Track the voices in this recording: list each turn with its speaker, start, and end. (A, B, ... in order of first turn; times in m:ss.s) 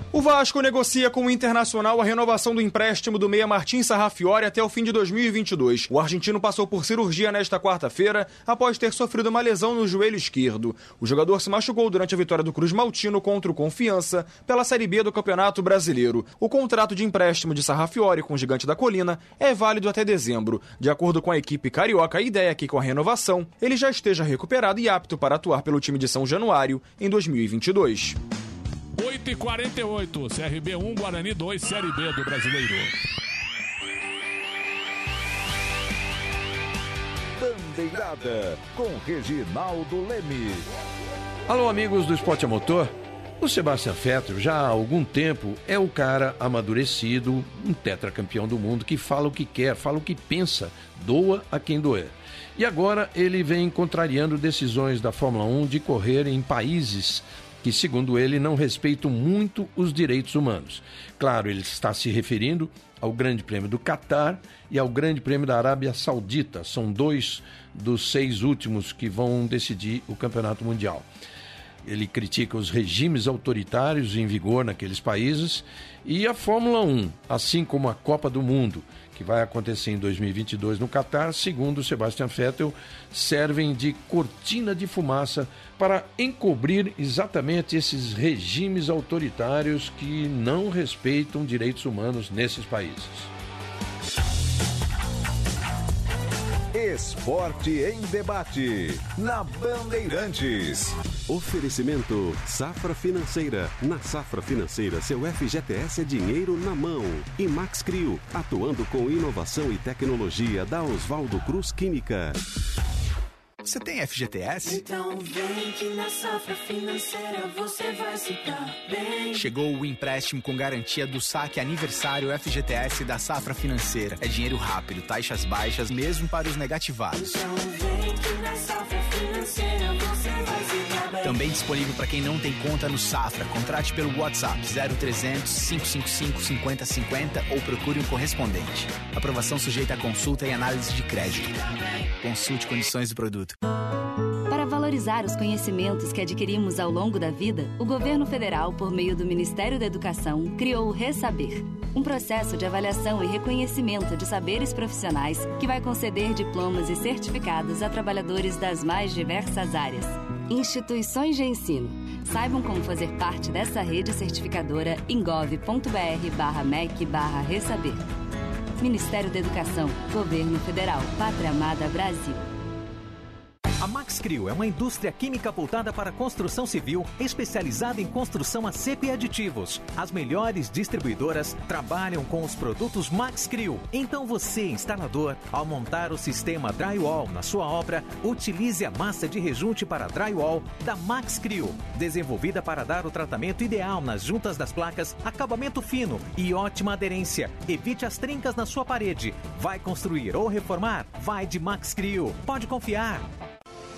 0:00.1-0:28.2 A
0:29.0-0:32.9 B
0:37.4-0:40.7 C
0:41.5-1:11.0 D
1:11.8-1:33.3 D
1:36.7-1:40.9 C
1:41.3-1:52.4 E
1:53.6-1:54.8 F
1:54.6-1:59.5 G
1:59.4-2:07.3 F
2:07.1-2:11.5 G
2:11.2-2:21.6 F
2:22.2-2:23.6 F
2:24.5-2:48.0 H
2:48.8-2:52.4 H
2:53.8-3:23.2 I